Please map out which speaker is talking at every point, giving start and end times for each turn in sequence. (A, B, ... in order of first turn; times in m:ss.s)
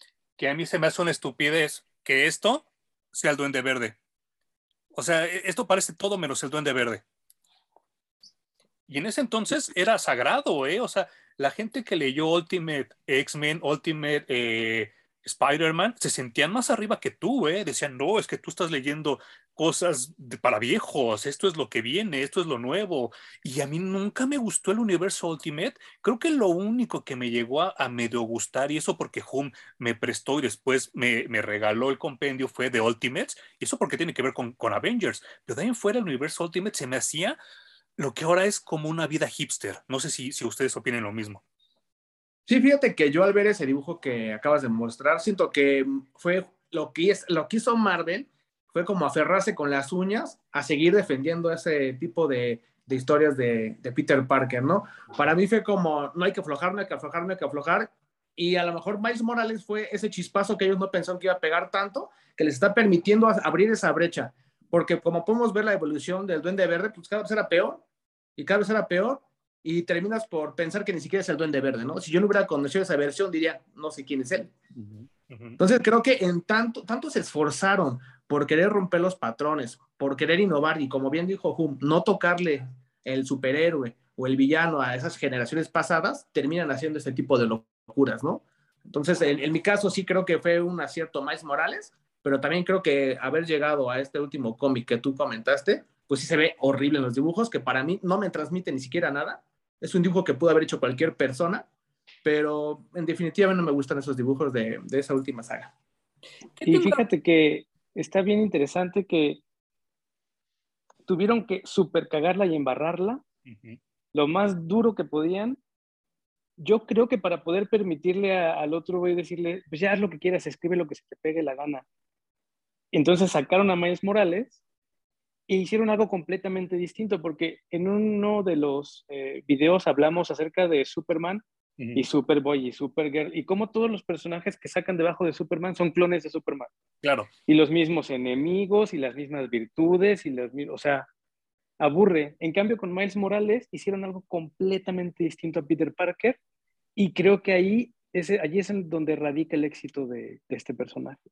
0:00.4-0:04.0 A
0:04.9-0:07.0 A
0:08.9-0:37.4 A
0:38.0-0:41.4 A
0:42.5-1:07.8 B
1:08.4-1:14.5 B
1:14.8-1:15.6 A
1:15.6-1:41.7 B
1:42.2-1:45.7 B
1:46.6-1:47.0 A
1:46.6-1:49.4 C
1:51.1-1:53.2 C
1:53.5-1:53.8 A
1:54.1-1:55.6 C
1:56.6-2:01.9 C
2:02.9-2:04.6 C
2:05.5-2:11.4 C
2:11.8-2:12.0 A
2:12.0-2:16.7 C
2:17.0-2:17.3 A
2:17.5-2:21.1 C
2:21.8-2:26.4 C
2:27.0-2:31.2 C